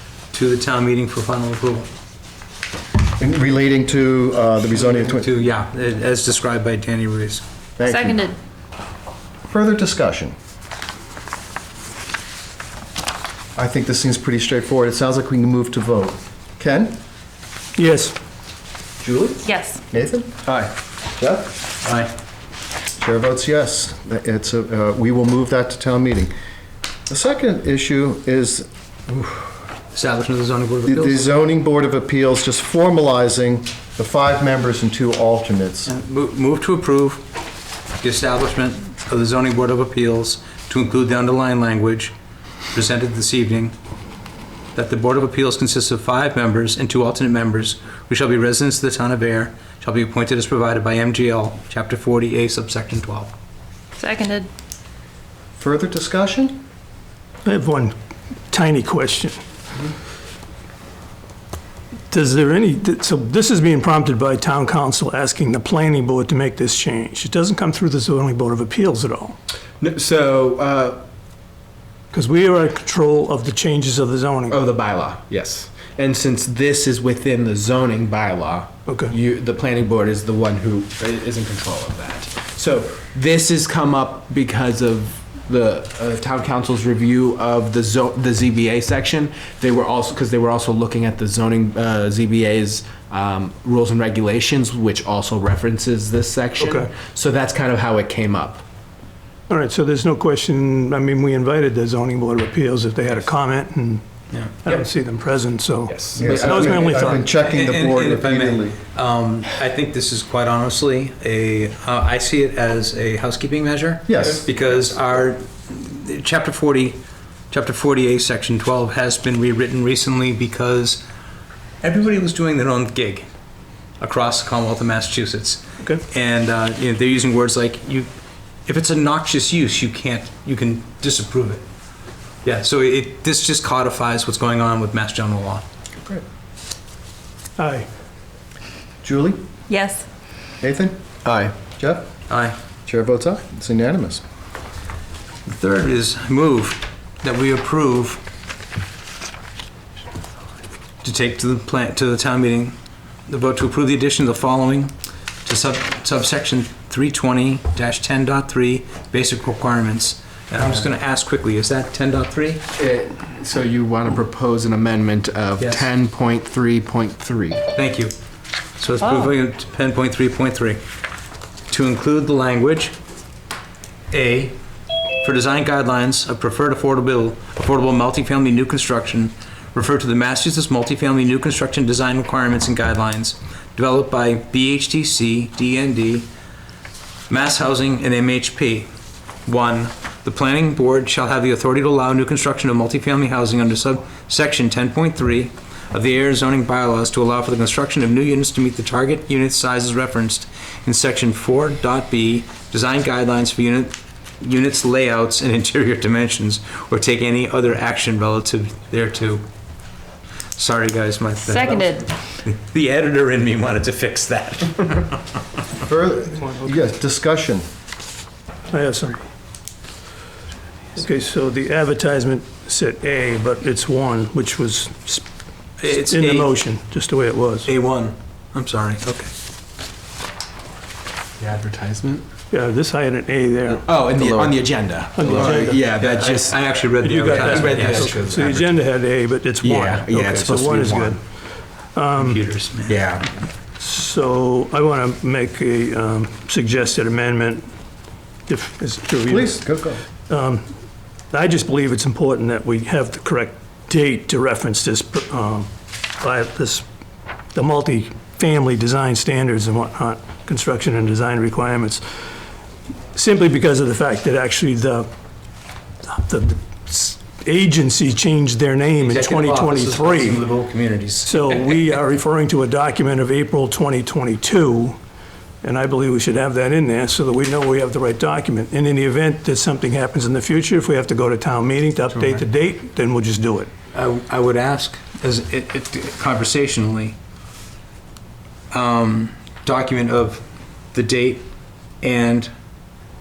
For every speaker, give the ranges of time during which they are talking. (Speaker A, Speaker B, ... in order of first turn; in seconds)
Speaker A: 0.3-1.9, 4.7-7.4, 21.8-22.1, 29.9-31.2, 35.9-37.2, 38.0-42.1, 42.7-43.8, 44.8-53.3, 104.3-104.8, 107.3-117.0, 117.5-121.0, 121.8-123.3, 124.0-128.1, 128.7-131.6, 132.4-135.6, 142.3-142.6, 145.5-148.2, 151.0-152.8, 153.3-154.9, 155.4-162.7, 165.6-165.9, 167.7-168.1, 168.8-170.8, 171.7-172.9, 174.1-174.6, 175.2-186.3, 187.3-188.9, 189.5-209.4, 210.6-211.8, 212.4-215.2, 225.8-226.5, 227.7-229.3, 235.9-238.2, 242.2-243.0, 269.0-271.9, 283.9-287.2, 288.7-290.4, 290.9-291.5, 292.0-292.5
Speaker B: 3.2-5.3, 7.8-8.2, 9.5-10.3, 13.6-17.0, 19.0-20.4, 21.2-21.5, 23.0-26.3, 27.1-29.5, 30.9-35.9, 55.6-56.6, 106.2-108.8, 114.1-114.5, 139.0-139.4, 140.6-141.0, 141.8-142.1, 142.9-144.2, 215.9-217.6, 249.3-250.0
Speaker C: 7.9-8.4, 19.4-19.8, 54.0-54.5, 139.7-140.1, 211.5-212.1
Speaker D: 17.8-18.1, 57.5-57.9, 58.5-59.4, 62.1-69.4, 72.1-74.6, 78.9-79.2, 96.6-96.9, 99.5-104.0, 104.6-107.2, 137.6-137.9, 218.7-219.2, 221.0-225.2, 225.8-227.7, 232.5-235.8, 237.0-241.2, 241.9-242.4, 243.8-247.7, 248.5-249.6, 250.3-250.7, 251.3-256.9, 257.5-262.0, 263.1-265.1, 266.0-270.4, 271.2-275.0, 275.6-283.7
Speaker E: 20.5-20.7, 69.8-71.0, 74.5-98.6, 105.9-107.1, 141.3-141.6, 160.6-160.9, 162.8-167.6, 231.4-232.2, 233.8-236.6, 237.1-238.7, 239.6-241.2, 242.9-243.3